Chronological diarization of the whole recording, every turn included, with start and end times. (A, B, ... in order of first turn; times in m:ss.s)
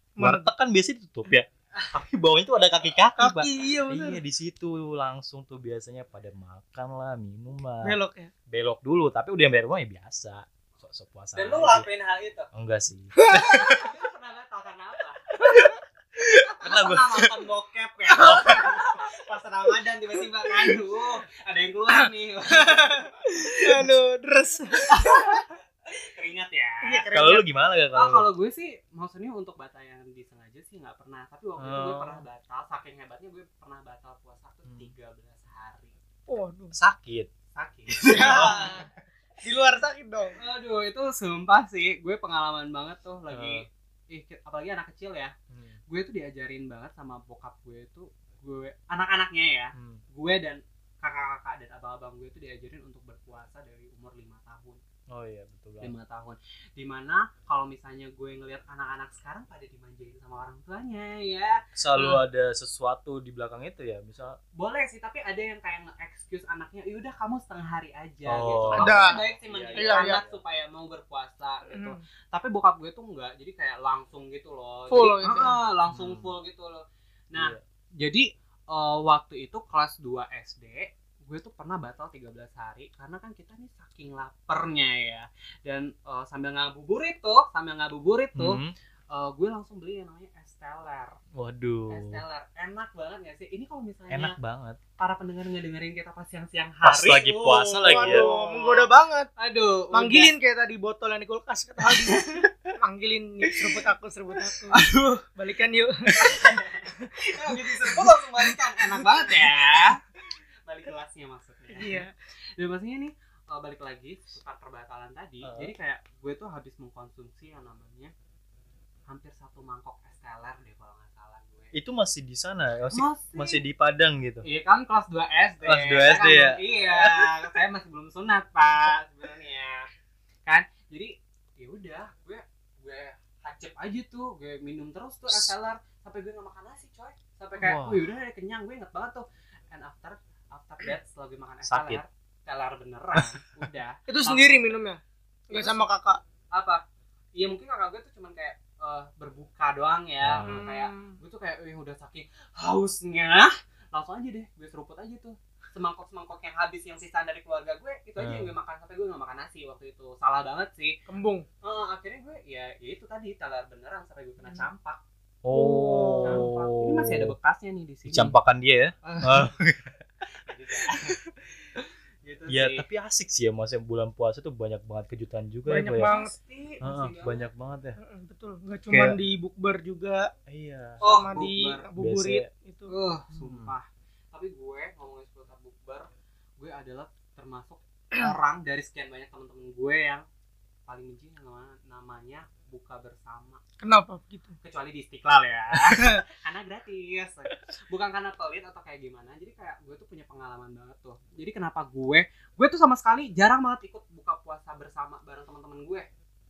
0:00.2-0:00.5 A
0:00.2-0:08.0 B
0:03.2-0:04.2 A
0:07.8-0:08.3 A
0:08.5-0:11.9 B
0:11.4-0:12.5 C
0:12.5-0:13.9 B
0:13.2-0:13.8 A
0:13.5-0:15.6 C
0:16.2-0:17.4 B
0:16.3-0:23.1 C
0:18.1-0:18.7 B
0:22.6-0:25.4 A
0:24.9-0:27.1 C
0:26.8-0:27.5 A
0:27.1-0:28.2 B
0:27.9-0:35.9 C
0:31.6-0:32.2 B
0:34.6-0:34.9 B
0:36.3-0:36.8 A
0:36.7-0:37.3 B
0:37.5-0:38.8 C
0:38.0-0:38.8 B
0:38.1-0:38.9 A
0:39.4-0:40.4 A
0:40.4-0:45.3 C
0:43.3-0:43.6 B
0:45.5-0:45.8 B
0:45.9-0:54.8 C
0:49.7-0:50.0 B
0:55.1-0:55.9 B
0:55.8-1:02.2 C
1:01.8-1:04.4 B
1:04.6-1:28.6 C
1:08.2-1:10.4 B
1:08.7-1:09.2 A
1:09.8-1:10.2 A
1:11.7-1:12.0 A
1:14.9-1:15.6 A
1:15.9-1:16.3 B
1:17.4-1:17.6 B
1:28.4-1:28.7 B
1:29.1-1:31.2 C
1:31.3-1:32.2 B
1:31.9-1:34.4 C
1:34.1-1:34.8 B
1:35.0-1:40.3 C
1:36.8-1:38.2 B
1:37.8-1:39.3 A
1:39.9-1:49.1 A
1:41.8-1:42.5 C
1:43.4-1:43.8 C
1:44.7-1:45.2 C
1:46.1-1:50.0 C
1:50.6-1:52.0 C
1:51.7-1:52.1 A
1:52.6-1:58.1 C
1:55.4-1:55.7 B
1:59.1-2:01.7 C
2:01.7-2:04.4 B
2:02.9-2:03.6 C
2:04.4-2:09.9 C
2:05.6-2:07.3 B
2:10.4-2:24.7 C
2:17.6-2:18.1 B
2:21.6-2:22.0 B
2:23.1-2:23.4 B
2:24.1-2:26.2 A
2:25.5-2:25.9 C
2:26.5-2:26.8 C
2:27.4-2:41.0 C
2:30.2-2:30.6 B
2:30.4-2:31.2 A
2:38.2-2:38.5 B
2:41.1-2:41.4 A
2:41.6-2:45.0 C
2:45.4-2:47.3 B
2:45.5-2:46.4 A
2:46.2-2:48.4 C
2:48.1-2:50.0 B
2:49.0-2:49.5 C
2:50.4-2:51.2 C
2:50.9-2:51.3 B
2:52.2-2:52.8 C
2:52.5-2:56.1 B
2:55.7-2:56.3 A
2:56.0-2:57.4 C
2:56.8-2:58.0 B
2:58.0-3:00.3 A
2:58.9-2:59.2 B
3:00.5-3:01.2 B
3:01.0-3:01.8 C
3:01.0-3:02.9 A
3:02.0-3:02.5 B
3:02.9-3:06.1 C
3:03.3-3:03.7 B
3:06.6-3:10.2 C
3:10.9-3:13.6 C
3:13.8-3:14.6 A
3:14.6-3:26.1 C
3:15.9-3:16.2 A